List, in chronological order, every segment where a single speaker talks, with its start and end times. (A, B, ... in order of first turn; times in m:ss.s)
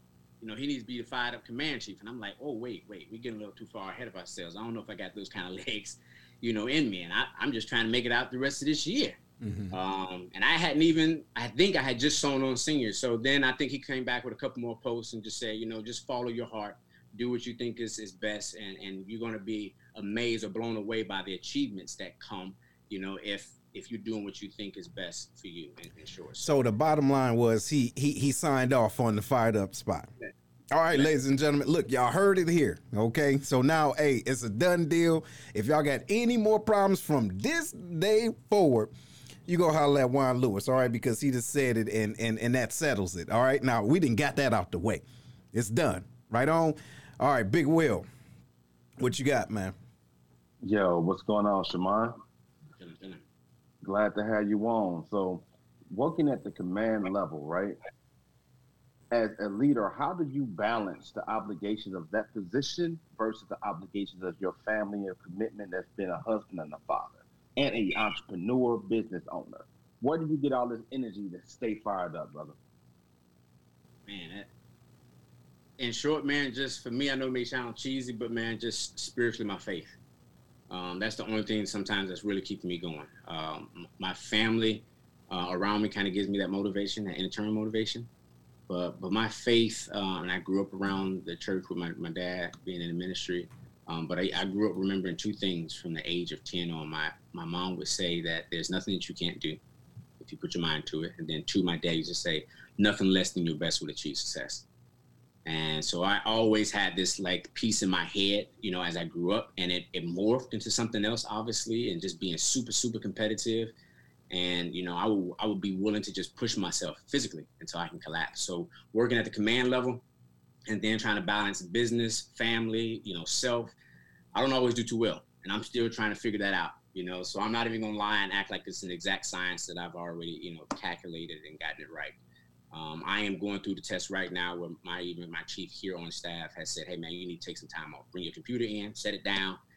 0:00.4-0:09.2 A
0:09.4-0:09.8 B
0:09.7-0:26.5 A
0:26.4-0:30.1 B
0:30.7-0:38.9 B
0:39.4-0:48.1 B
0:49.0-0:49.7 B
0:50.6-0:52.2 C
0:52.8-0:53.2 A
0:53.8-0:57.8 C
0:59.1-1:12.6 C
1:14.1-1:14.5 A
1:15.8-1:20.0 A
1:20.7-1:28.1 A
1:28.7-1:39.6 A
1:40.2-1:44.6 A
1:45.4-1:53.7 A
1:54.3-2:00.0 A
2:00.7-2:03.7 A
2:04.3-2:12.2 A
2:12.7-2:19.6 A